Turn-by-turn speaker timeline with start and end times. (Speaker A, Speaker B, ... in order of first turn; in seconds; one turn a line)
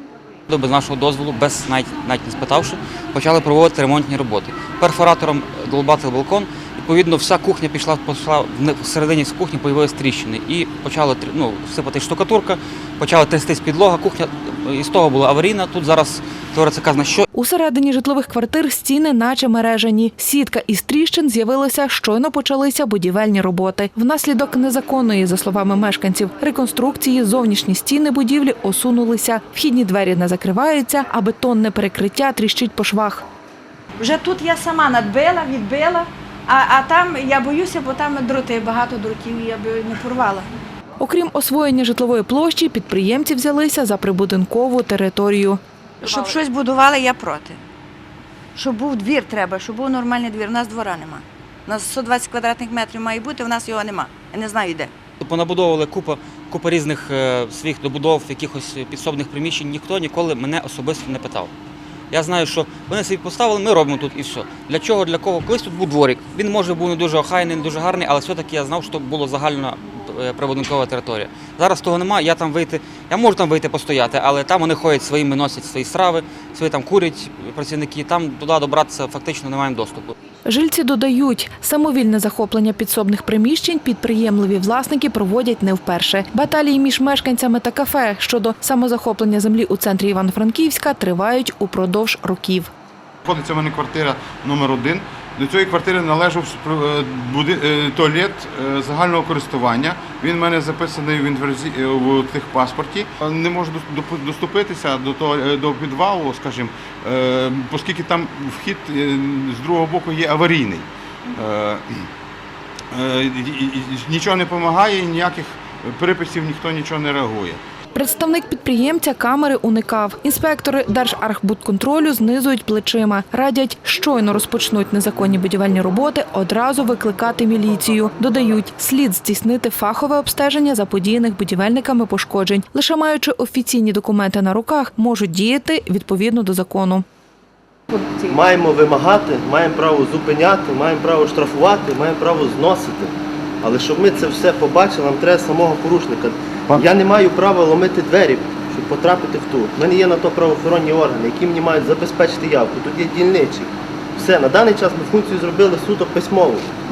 Speaker A: 0.5-17.2
Speaker B: 17.3-33.3
Speaker C: 34.0-40.5
Speaker B: 41.0-45.6
Speaker C: 46.0-47.6
Speaker C: 48.5-54.9
Speaker A: 55.2-61.5
Speaker A: 62.1-80.2
Speaker B: 80.5-92.7
Speaker D: 93.2-112.1
Speaker D: 112.9-117.6
Speaker B: 118.0-137.1
Speaker E: 138.2-156.7